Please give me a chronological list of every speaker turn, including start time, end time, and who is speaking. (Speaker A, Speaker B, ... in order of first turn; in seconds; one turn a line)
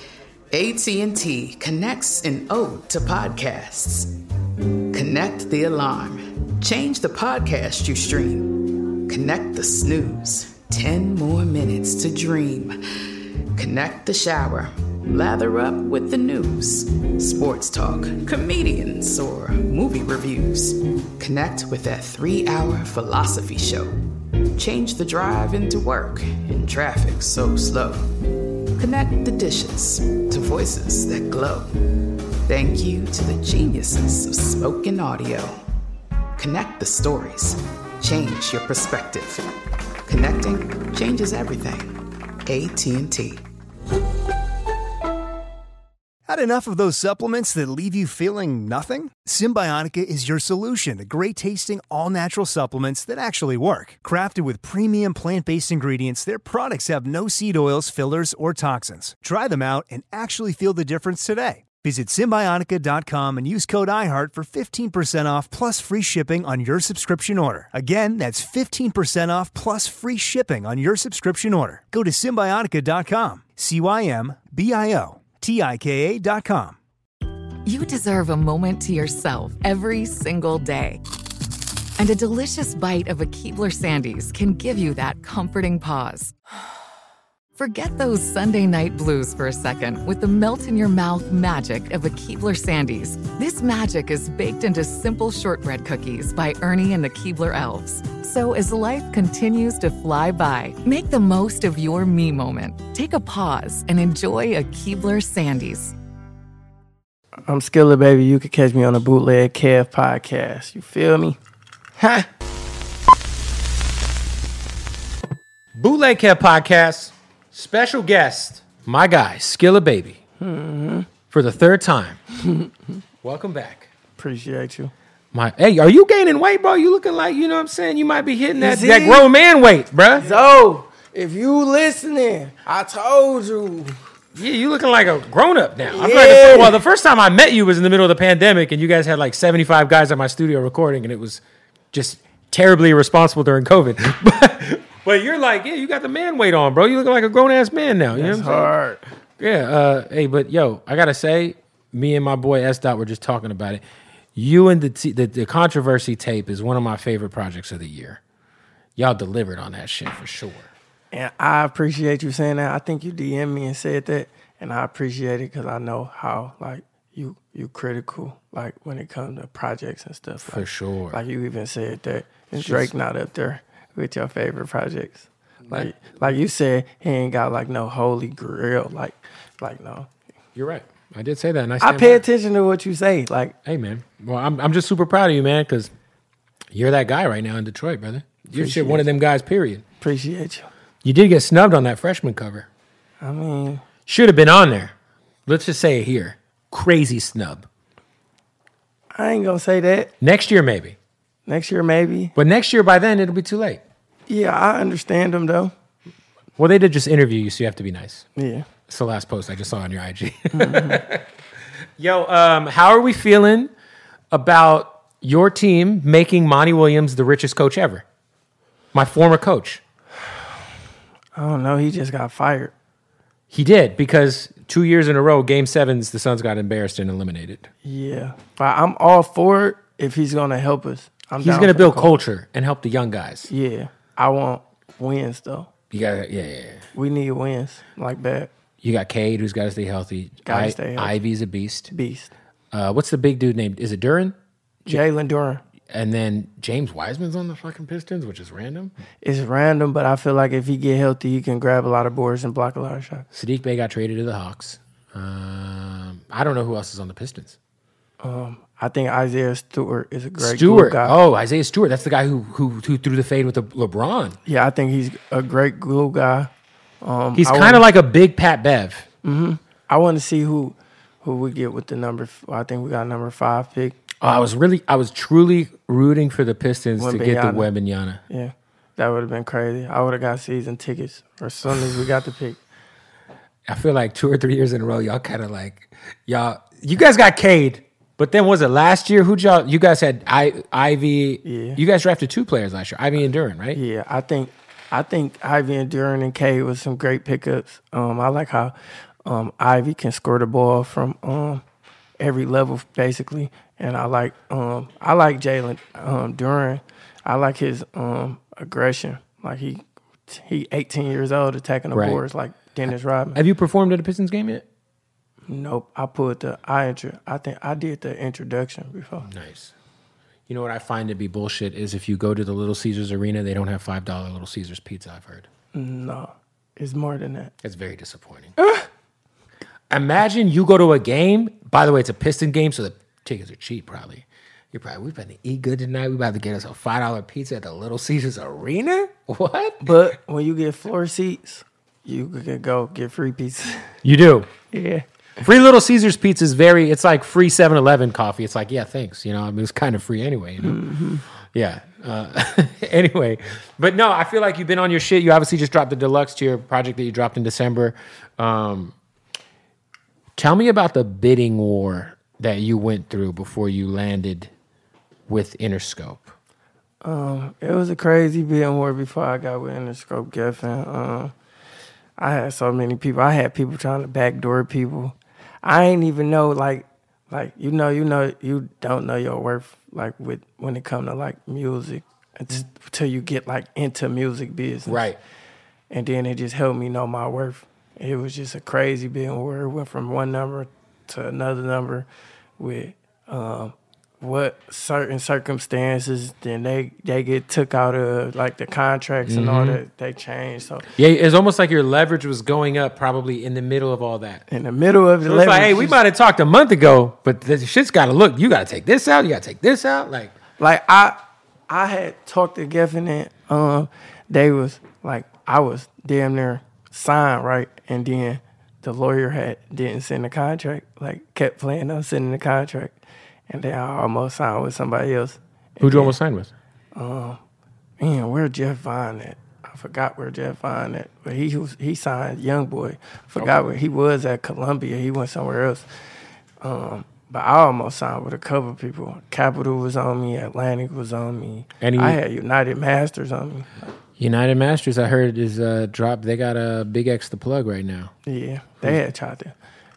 Speaker A: 0.5-4.1
Speaker A: 4.9-12.8
Speaker A: 13.6-23.9
Speaker A: 24.6-28.1
Speaker A: 28.8-31.7
Speaker A: 32.5-35.6
Speaker A: 36.4-39.5
Speaker A: 40.1-41.9
Speaker A: 42.5-43.4
Speaker B: 46.3-76.8
Speaker C: 77.7-81.0
Speaker C: 82.0-86.4
Speaker C: 87.6-106.0
Speaker D: 107.5-111.4
Speaker D: 112.0-112.3
Speaker E: 115.8-120.2
Speaker D: 120.4-121.1
Speaker E: 121.3-122.2
Speaker D: 122.4-122.7
Speaker E: 123.2-123.9
Speaker D: 124.2-124.9
Speaker E: 125.3-130.3
Speaker D: 128.6-129.3
Speaker D: 130.2-134.0
Speaker E: 134.4-141.4
Speaker D: 135.9-136.8
Speaker E: 141.9-148.7
Speaker D: 148.1-149.0
Speaker E: 149.4-153.8
Speaker E: 154.3-158.2
Speaker E: 159.0-160.7
Speaker D: 161.1-180.1
Speaker E: 170.5-171.2
Speaker E: 172.6-172.9
Speaker E: 175.7-176.2
Speaker E: 180.6-182.2
Speaker D: 181.8-183.6
Speaker E: 183.7-185.9
Speaker E: 186.7-189.8
Speaker D: 188.5-189.1
Speaker D: 190.0-190.7
Speaker E: 191.0-192.7
Speaker D: 193.2-193.8
Speaker E: 194.1-194.9
Speaker E: 195.5-197.7
Speaker D: 199.2-200.1
Speaker E: 200.2-201.0
Speaker D: 201.5-202.3
Speaker E: 202.4-203.8
Speaker D: 204.3-205.7
Speaker E: 206.6-208.3
Speaker D: 208.4-208.7
Speaker E: 208.9-211.2
Speaker D: 210.5-211.0
Speaker E: 212.0-213.7
Speaker E: 214.3-218.0
Speaker E: 218.9-219.8
Speaker D: 221.4-222.7
Speaker E: 223.5-227.7
Speaker D: 227.8-232.2
Speaker E: 231.4-233.5
Speaker D: 233.5-235.7
Speaker E: 235.9-236.8
Speaker D: 236.9-238.5
Speaker E: 238.8-241.9
Speaker D: 240.4-241.1
Speaker D: 241.9-242.3
Speaker E: 242.7-244.3
Speaker D: 244.9-245.6
Speaker E: 245.9-248.9
Speaker D: 249.2-253.3
Speaker E: 253.3-257.6
Speaker D: 258.2-261.2
Speaker E: 260.4-264.4
Speaker D: 264.5-266.5
Speaker D: 267.0-267.8
Speaker E: 267.4-269.1
Speaker D: 269.2-274.0
Speaker E: 274.2-278.2
Speaker D: 277.0-277.7
Speaker D: 278.3-282.6
Speaker E: 283.7-293.8
Speaker D: 291.4-291.8
Speaker D: 293.7-301.6
Speaker D: 302.2-313.4
Speaker E: 311.9-312.2
Speaker E: 313.4-314.6
Speaker D: 315.5-319.3
Speaker E: 319.2-319.7
Speaker E: 320.5-325.5
Speaker D: 325.7-327.5
Speaker E: 327.6-328.5
Speaker D: 328.6-328.9
Speaker E: 329.9-340.0
Speaker D: 339.8-343.9
Speaker E: 344.0-344.5
Speaker D: 344.7-345.1
Speaker E: 345.4-350.8
Speaker D: 350.6-351.2
Speaker E: 351.5-358.9
Speaker E: 360.4-364.5
Speaker E: 365.3-366.3
Speaker D: 367.0-371.3
Speaker D: 372.2-385.0
Speaker E: 384.9-385.2
Speaker D: 385.9-392.1
Speaker D: 392.6-400.9
Speaker E: 399.3-399.8
Speaker E: 401.0-404.5
Speaker D: 404.5-406.0
Speaker E: 405.2-410.3
Speaker D: 410.6-411.2
Speaker D: 411.7-423.0
Speaker D: 423.5-426.1
Speaker E: 425.8-426.5
Speaker D: 426.9-427.4
Speaker D: 428.0-435.9
Speaker D: 436.6-443.9
Speaker E: 441.8-442.2
Speaker E: 444.2-448.1
Speaker D: 448.3-449.6